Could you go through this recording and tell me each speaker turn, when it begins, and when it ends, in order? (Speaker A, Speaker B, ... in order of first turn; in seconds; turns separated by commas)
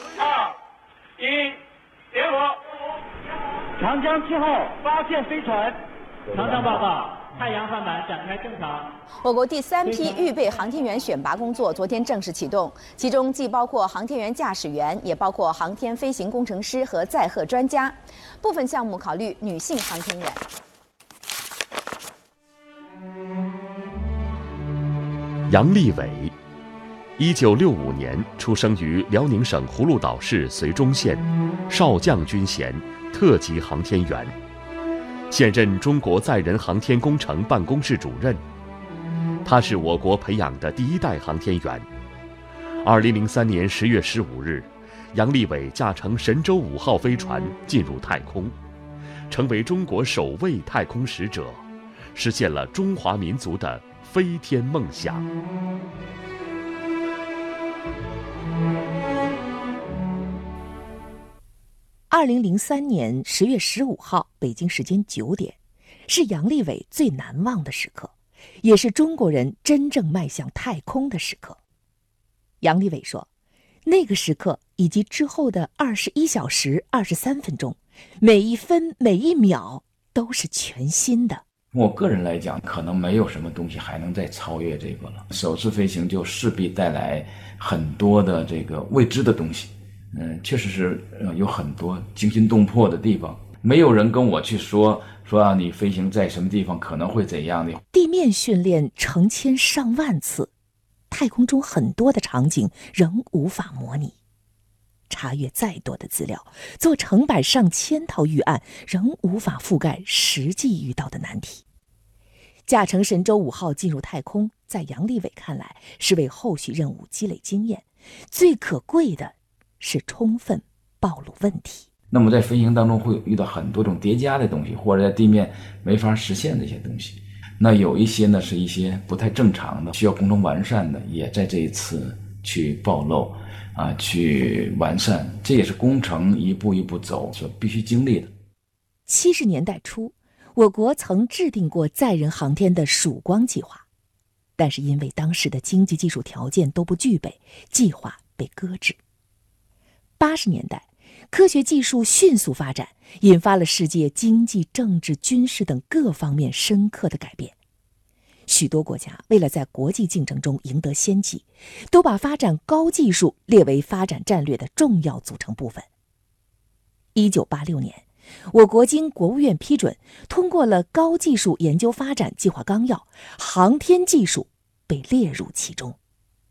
Speaker A: 3.8-5.8, Speaker A: 6.4-8.8, Speaker B: 9.2-20.4, Speaker C: 25.5-26.4, Speaker C: 27.2-34.3, Speaker C: 35.3-38.4, Speaker C: 39.4-41.9, Speaker C: 42.8-48.5, Speaker C: 49.3-55.3, Speaker D: 62.1-71.6, Speaker D: 72.6-73.3, Speaker D: 73.8-81.4, Speaker E: 81.7-97.8, Speaker D: 97.9-100.5, Speaker D: 101.1-104.2, Speaker D: 105.1-111.6, Speaker D: 112.7-121.9, Speaker E: 122.1-138.3, Speaker D: 139.1-143.8, Speaker D: 144.6-149.0, Speaker D: 150.2-157.6, Speaker D: 158.5-165.9, Speaker D: 167.2-176.0